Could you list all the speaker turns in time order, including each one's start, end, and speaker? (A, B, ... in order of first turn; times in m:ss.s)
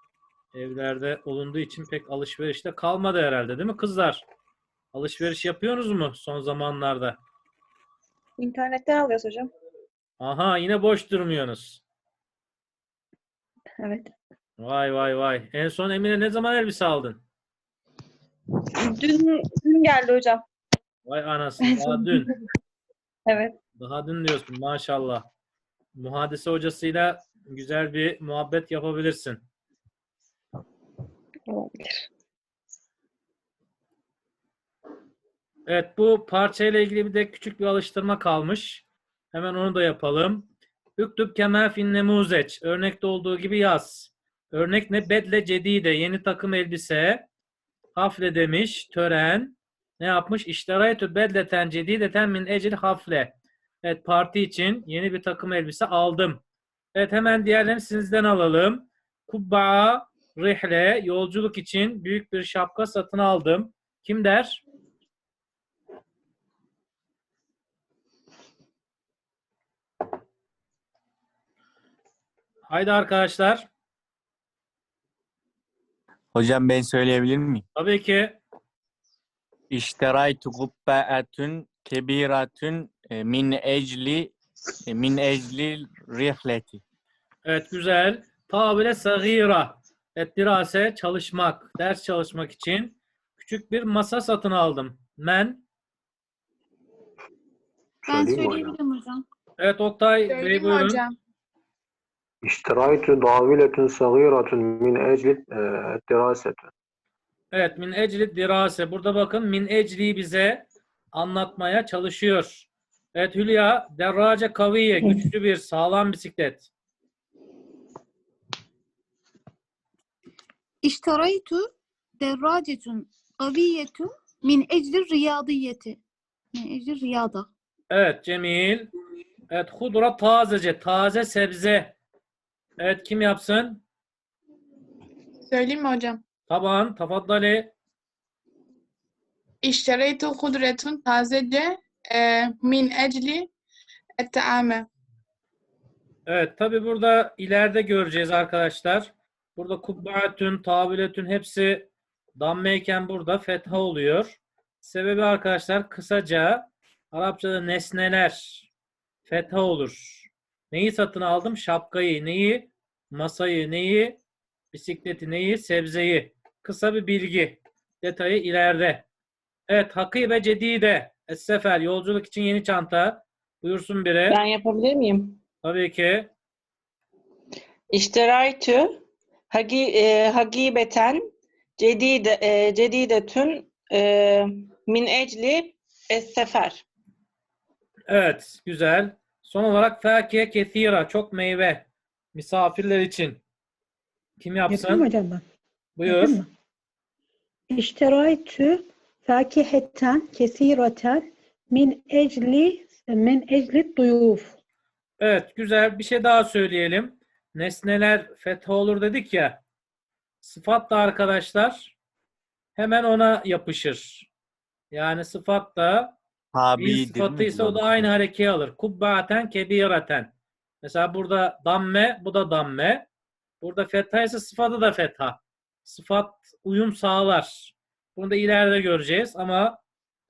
0:00.5-0:04.2 A
0:04.9-0:07.2 A
0:08.4-0:09.5 B
0:10.2-0:11.8 A
0:13.8-0:14.1 B
0:14.6-0:17.2 A
0:18.7-0:20.4 B
0:21.0-0:22.3 A
0:21.6-0:22.3 B
0:23.3-0:23.6 B
0:23.8-0:25.3 A
0:25.9-0:29.4 A
0:31.5-0:32.1 B
0:35.7-0:47.2 A
0:47.9-0:56.4 A
0:56.9-1:04.6 A
1:12.7-1:13.7 A
1:16.3-1:17.6 C
1:17.7-1:18.4 A
1:19.7-1:24.3 C
1:24.9-1:26.8 C
1:27.4-1:35.6 A
1:38.0-1:38.8 D
1:38.1-1:39.2 E
1:39.6-1:41.0 A
1:40.3-1:41.1 F
1:42.4-1:46.7 D
1:47.5-1:56.7 A
2:00.8-2:01.7 E
2:02.2-2:06.0 E
2:06.5-2:07.5 E
2:07.9-2:08.9 A
2:09.5-2:11.9 A
2:12.8-2:13.8 A
2:15.5-2:16.2 F
2:16.5-2:17.7 A
2:19.6-2:23.5 F
2:24.2-2:24.9 F
2:26.2-2:38.7 A
2:39.2-2:44.2 A
2:44.7-2:49.0 A
2:49.7-2:54.4 A
2:54.3-2:55.4 G
2:55.6-2:56.3 A
2:57.9-3:01.2 G
3:01.8-3:06.8 G
3:08.1-3:13.4 A
3:14.4-3:15.1 A
3:14.7-3:15.4 H
3:16.0-3:16.4 A
3:16.0-3:16.5 H
3:17.7-3:24.5 H
3:25.2-3:29.6 A
3:30.4-3:31.9 A
3:32.8-3:34.3 A
3:34.9-3:36.2 A
3:36.5-3:38.1 C
3:36.8-3:43.0 A
3:43.6-3:49.8 A